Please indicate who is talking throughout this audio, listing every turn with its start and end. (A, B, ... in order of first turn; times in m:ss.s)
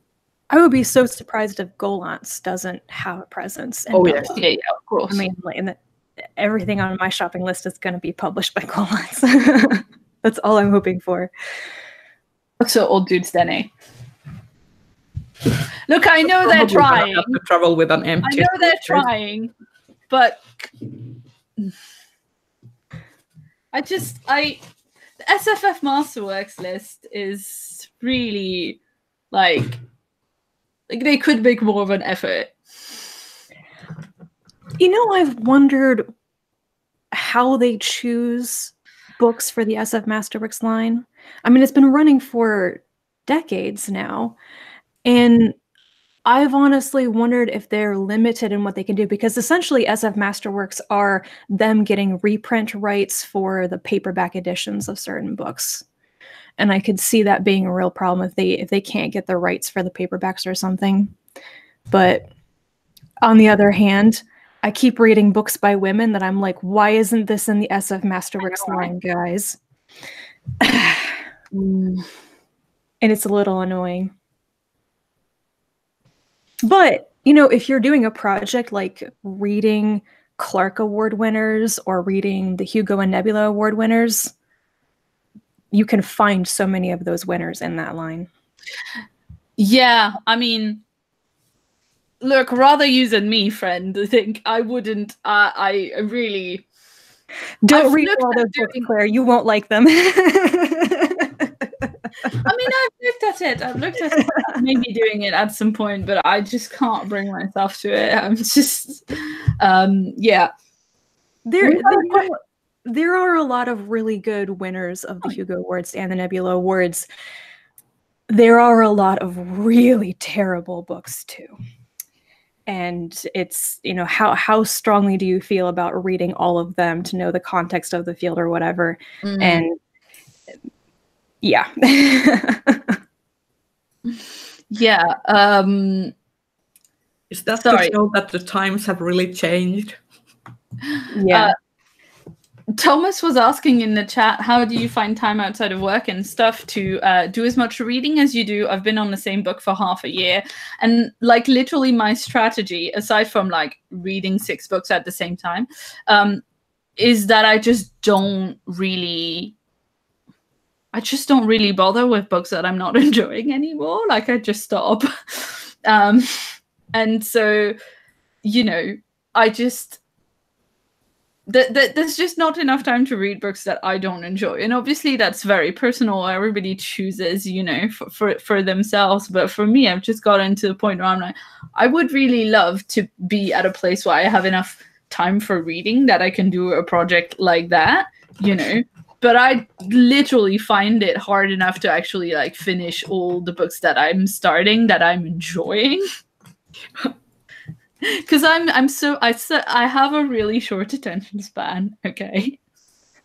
0:00.5-0:04.4 A
0:03.9-0:04.3 B
0:04.3-0:05.2 C
0:05.1-0:11.3 A
0:12.6-0:13.7 C
0:15.9-0:17.4 C
0:16.5-0:19.1 B
0:18.2-0:19.5 C
0:20.1-0:20.7 C
0:23.7-0:24.6 C
0:25.2-0:28.8 C
0:29.3-0:29.8 C
0:30.9-0:32.6 C
0:34.8-0:36.1 A
0:37.1-0:44.4 A
0:45.0-0:45.6 A
0:46.2-0:55.8 A
0:56.6-1:01.1 A
1:01.9-1:02.3 A
1:03.2-1:09.6 A
1:08.4-1:08.9 C
1:10.6-1:11.1 A
1:11.5-1:12.1 C
1:13.0-1:14.1 A
1:16.6-1:24.3 A
1:25.7-1:28.3 A
1:29.6-1:30.8 C
1:32.2-1:36.6 C
1:37.6-1:41.7 A
1:37.7-1:38.9 C
1:42.4-1:50.5 C
1:44.1-1:44.6 A
1:51.4-1:57.1 A
1:51.6-1:52.3 C
1:58.3-2:01.6 A
2:02.7-2:09.8 A
2:09.2-2:09.6 C
2:11.4-2:13.0 A
2:14.1-2:16.1 C
2:17.3-2:20.0 B
2:17.6-2:17.9 C
2:21.1-2:21.5 A
2:21.3-2:21.6 C
2:22.7-2:36.4 C
2:37.0-2:39.5 C
2:40.9-2:47.8 C
2:48.4-2:50.0 C
2:51.5-3:16.0 C
3:18.0-3:22.6 C